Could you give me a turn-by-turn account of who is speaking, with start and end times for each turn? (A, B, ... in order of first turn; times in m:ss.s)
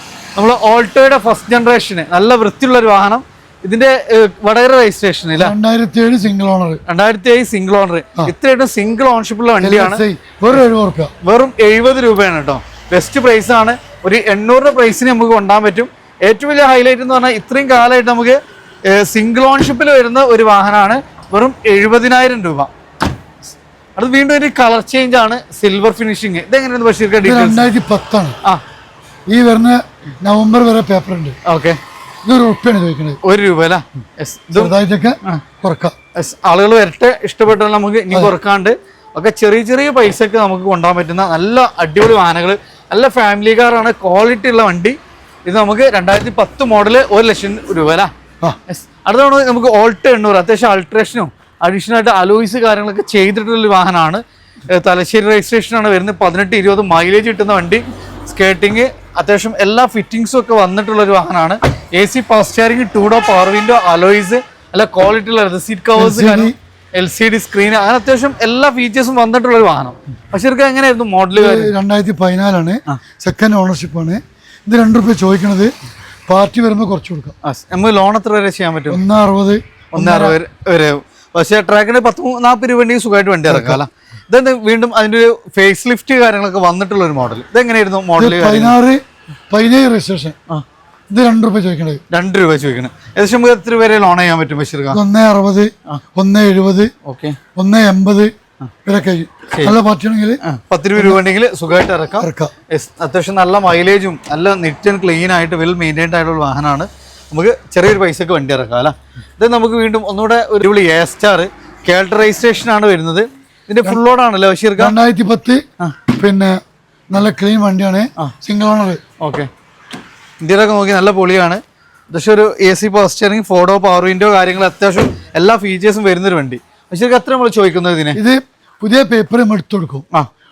0:00.4-0:05.5 A
0:05.4-0:06.8 B
0:06.9-0:10.6 A
0:09.6-0:11.1 B
0:11.2-0:22.7 A
0:24.0-0:27.7 A
0:27.2-0:28.4 B
0:29.3-0:31.4 B
0:31.4-0:31.8 A
0:32.2-0:33.2 B
0:33.2-0:35.4 A
0:34.5-0:35.9 B
0:36.1-0:48.1 A
0:48.7-1:11.7 A
1:05.9-1:06.5 B
1:11.3-1:15.7 B
1:16.3-1:17.3 B
1:17.4-1:19.0 A
1:18.9-1:20.4 B
1:19.9-1:28.7 A
1:23.4-1:23.8 B
1:28.2-1:30.3 B
1:31.1-1:32.0 B
1:32.1-1:35.0 A
1:34.9-1:36.9 B
1:37.0-1:37.4 A
1:37.6-1:38.3 B
1:38.8-1:40.4 B
1:39.5-1:39.8 A
1:40.4-1:54.9 A
1:42.2-1:42.5 B
1:54.8-1:55.6 B
1:56.2-1:56.6 B
1:57.1-1:59.0 B
1:59.2-1:59.5 A
2:00.4-2:01.6 A
2:02.1-2:08.2 A
2:08.1-2:10.0 B